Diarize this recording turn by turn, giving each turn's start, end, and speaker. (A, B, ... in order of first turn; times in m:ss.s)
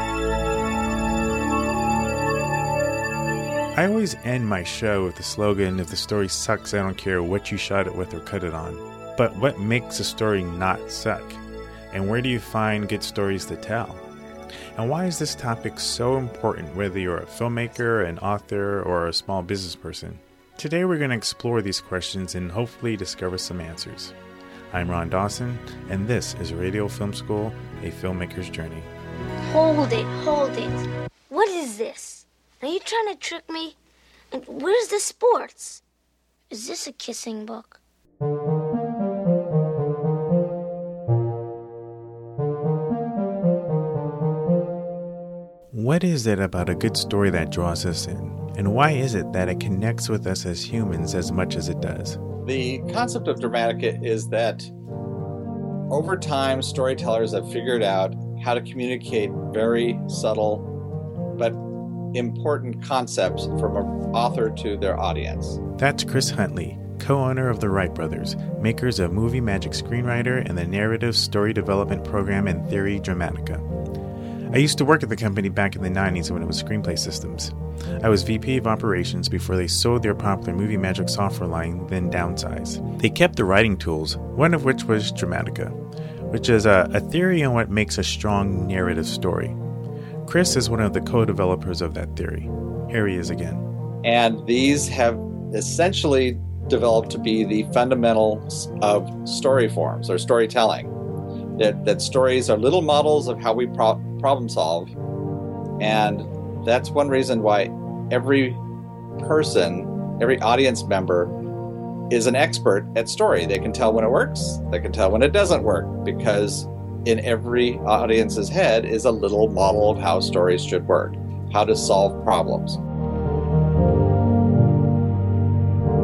0:03.7-0:11.4 A
0:11.9-0:14.0 A
0:14.8-0:24.1 A
0:24.7-0:28.9 A
0:29.4-0:33.8 B
0:34.3-0:35.8 B
0:36.5-0:37.8 B
0:45.7-0:52.2 A
0:52.4-0:54.7 C
0:55.9-1:00.7 C
1:02.1-1:05.6 C
1:05.8-1:13.6 A
1:14.5-1:25.8 A
1:26.3-1:29.6 A
1:30.2-1:33.6 A
1:34.0-1:40.9 C
1:41.6-1:44.9 C
1:45.8-1:48.6 C
1:49.2-1:51.3 C
1:52.1-2:02.8 C